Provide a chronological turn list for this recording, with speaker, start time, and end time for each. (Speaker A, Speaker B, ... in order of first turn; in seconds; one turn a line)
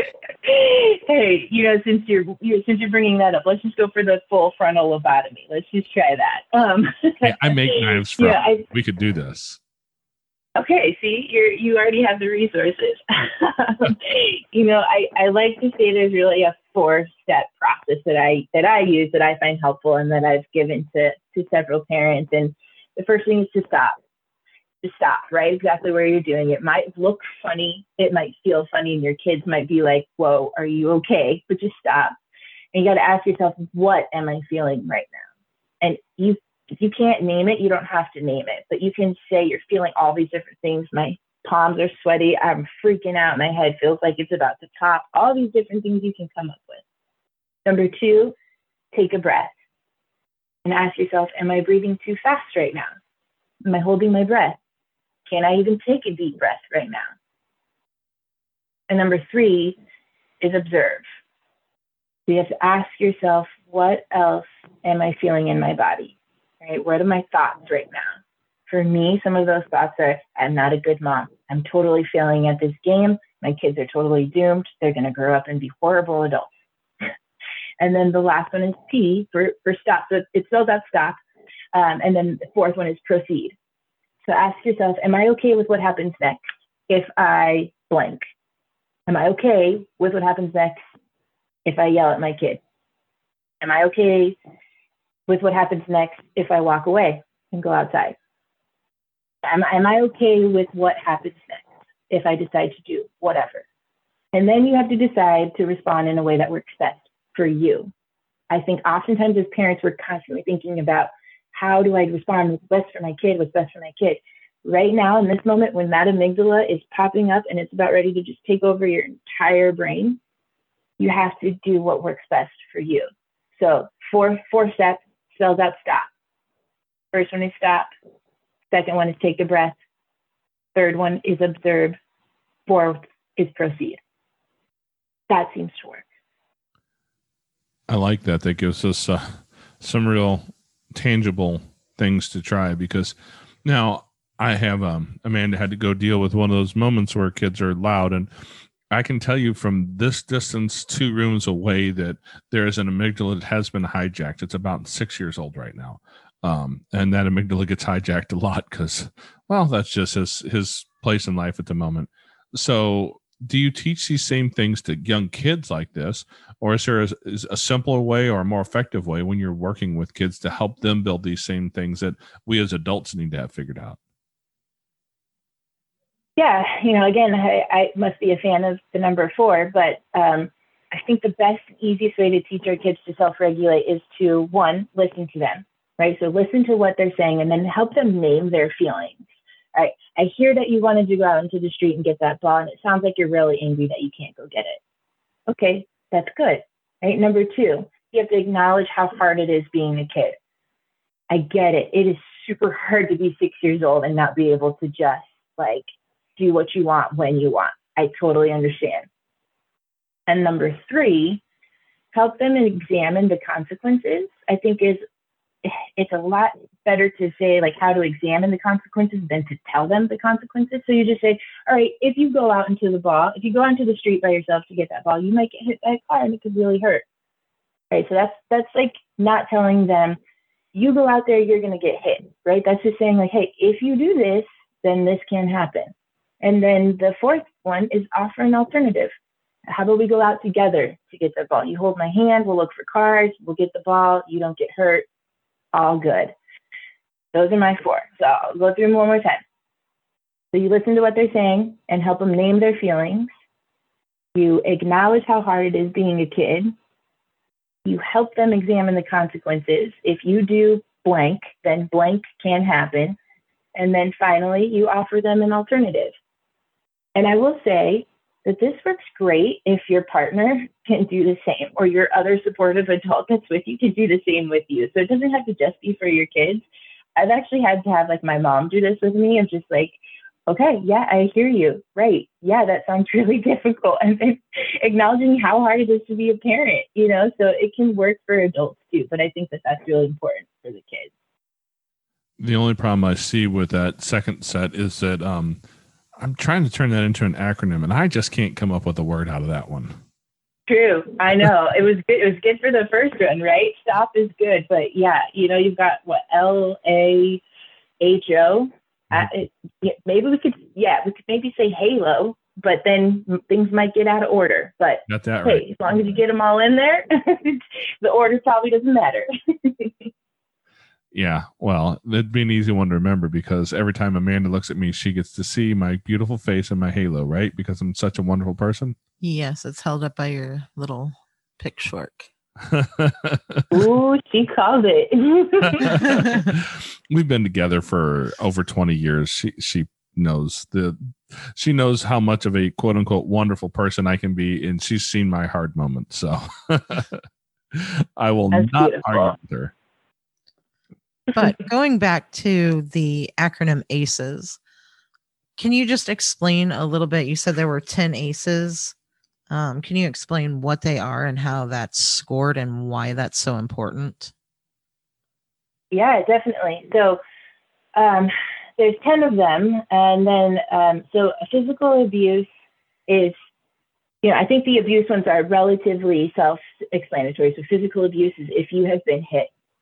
Speaker A: 0.4-8.6
Speaker B: 7.2-9.6
Speaker A: 10.6-24.0
Speaker A: 24.8-32.1
Speaker A: 32.7-35.2
Speaker A: 35.8-46.8
Speaker A: 47.6-48.3
Speaker A: 48.9-49.5
Speaker A: 50.6-52.9
Speaker A: 53.6-54.6
Speaker A: 55.2-57.1
Speaker A: 58.9-59.8
Speaker A: 60.4-61.0
Speaker A: 62.3-76.5
Speaker A: 77.8-81.2
Speaker A: 81.7-83.5
Speaker A: 84.2-88.2
Speaker A: 89.1-90.8
Speaker A: 91.6-92.6
Speaker A: 93.6-94.3
Speaker A: 95.3-98.2
Speaker A: 99.4-103.6
Speaker A: 104.3-107.9
Speaker A: 108.5-120.2
Speaker A: 121.0-126.1
Speaker A: 127.1-127.9
Speaker A: 128.7-129.8
Speaker A: 130.7-132.0
Speaker A: 132.7-134.0
Speaker A: 135.3-136.0
Speaker B: 137.9-143.1
Speaker B: 143.6-148.3
Speaker B: 148.9-174.0
Speaker A: 176.4-189.2
Speaker A: 189.7-194.8
Speaker A: 195.5-200.4
Speaker A: 201.3-209.1
Speaker A: 210.3-211.4
Speaker A: 212.1-215.0
Speaker A: 215.6-227.0
Speaker A: 227.9-230.2
Speaker A: 230.7-239.1
Speaker A: 239.7-245.0
Speaker A: 245.7-246.3
Speaker A: 247.3-249.4
Speaker A: 250.5-253.3
Speaker A: 254.3-256.7
Speaker A: 257.8-263.2
Speaker A: 263.7-266.1
Speaker A: 267.1-276.6
Speaker A: 277.1-291.1
Speaker B: 292.4-295.6
Speaker B: 296.2-299.9
Speaker A: 300.7-307.4
Speaker A: 308.0-320.1
Speaker B: 315.1-316.1
Speaker B: 321.1-328.9
Speaker C: 329.2-332.3
Speaker B: 332.7-333.6
Speaker A: 333.7-336.0
Speaker B: 335.8-347.2
Speaker B: 347.7-349.7
Speaker A: 348.5-349.4
Speaker C: 351.3-354.6
Speaker C: 355.6-358.9
Speaker C: 359.5-364.3
Speaker A: 365.9-367.2
Speaker A: 367.9-372.5
Speaker A: 373.1-373.4
Speaker A: 374.2-379.5